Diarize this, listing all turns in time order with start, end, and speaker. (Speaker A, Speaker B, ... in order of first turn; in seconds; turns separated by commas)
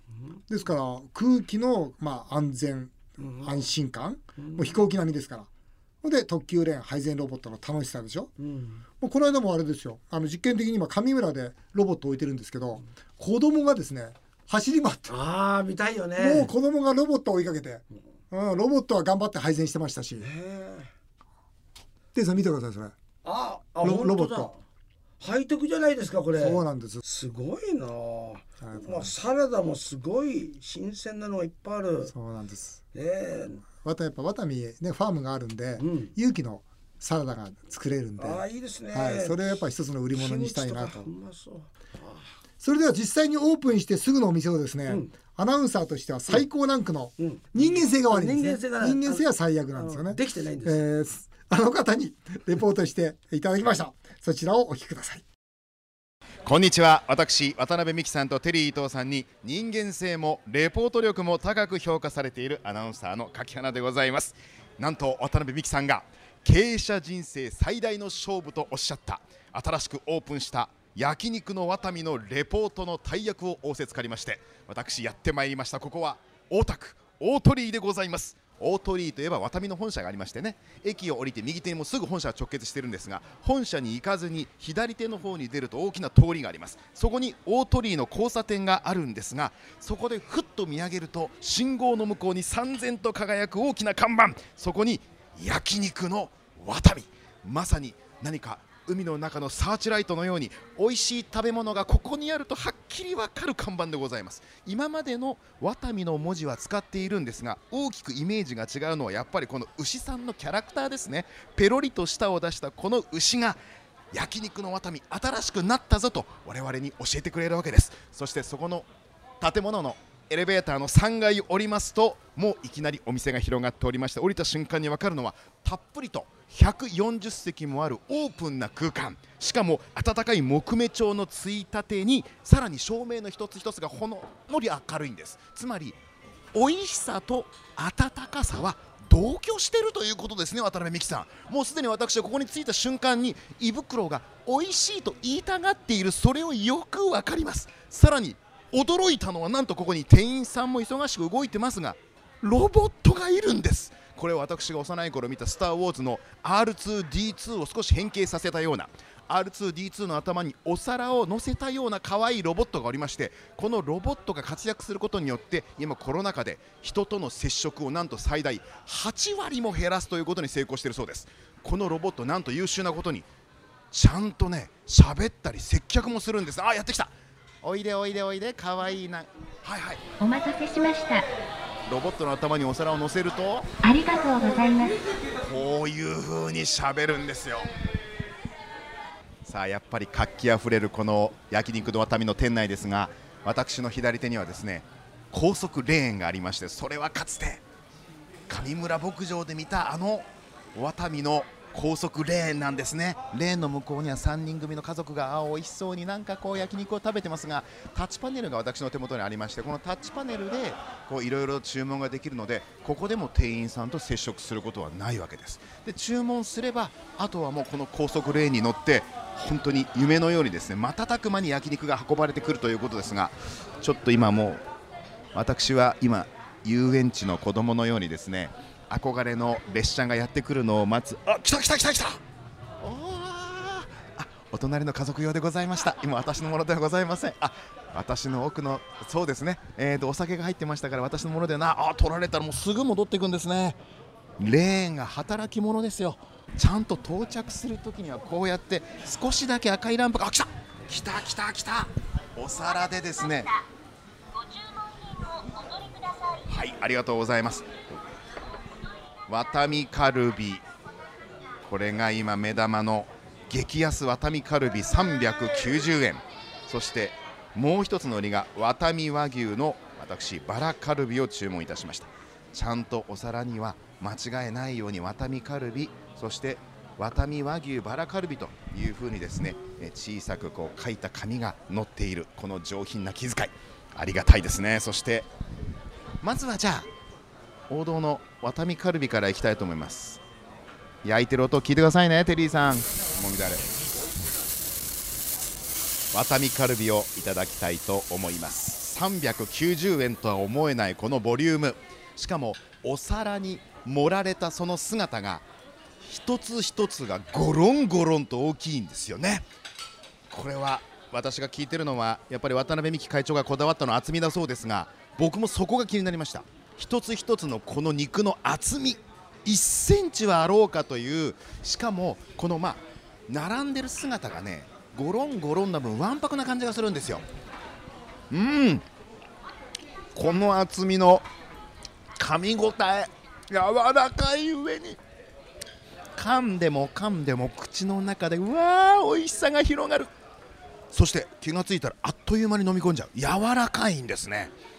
Speaker A: 0.5-5.5, Speaker B: 3.2-3.5, Speaker B: 4.4-4.8, Speaker A: 6.0-8.3, Speaker B: 8.4-8.8, Speaker A: 9.0-15.2, Speaker B: 15.1-16.5, Speaker A: 16.2-20.3, Speaker B: 20.2-20.9, Speaker A: 22.1-22.9, Speaker B: 23.2-24.6, Speaker A: 23.8-24.5, Speaker B: 25.2-32.1, Speaker A: 26.4-27.0, Speaker A: 28.6-29.2, Speaker A: 32.1-32.8, Speaker B: 32.9-33.6, Speaker A: 33.7-41.1, Speaker B: 35.8-36.1, Speaker B: 38.2-39.4, Speaker B: 40.1-42.3, Speaker A: 42.6-55.2, Speaker B: 47.2-50.8, Speaker C: 56.4-113.6, Speaker C: 114.1-118.9, Speaker C: 119.4-136.0, Speaker C: 136.5-173.2, Speaker C: 173.9-180.0, Speaker D: 180.2-181.2, Speaker C: 181.9-183.7, Speaker D: 183.8-185.0, Speaker C: 185.4-187.7, Speaker C: 189.4-197.6, Speaker C: 198.5-224.6, Speaker C: 225.3-232.2, Speaker C: 232.8-243.8, Speaker C: 244.4-253.5, Speaker C: 256.4-257.7, Speaker C: 259.3-260.6, Speaker C: 261.6-285.3, Speaker C: 286.2-286.9, Speaker C: 287.7-290.2, Speaker C: 291.0-293.7, Speaker C: 296.1-305.4, Speaker C: 306.0-309.5, Speaker C: 310.3-327.2, Speaker C: 328.3-328.9, Speaker C: 330.1-331.2, Speaker C: 332.2-335.0, Speaker C: 336.1-340.1, Speaker C: 340.9-344.5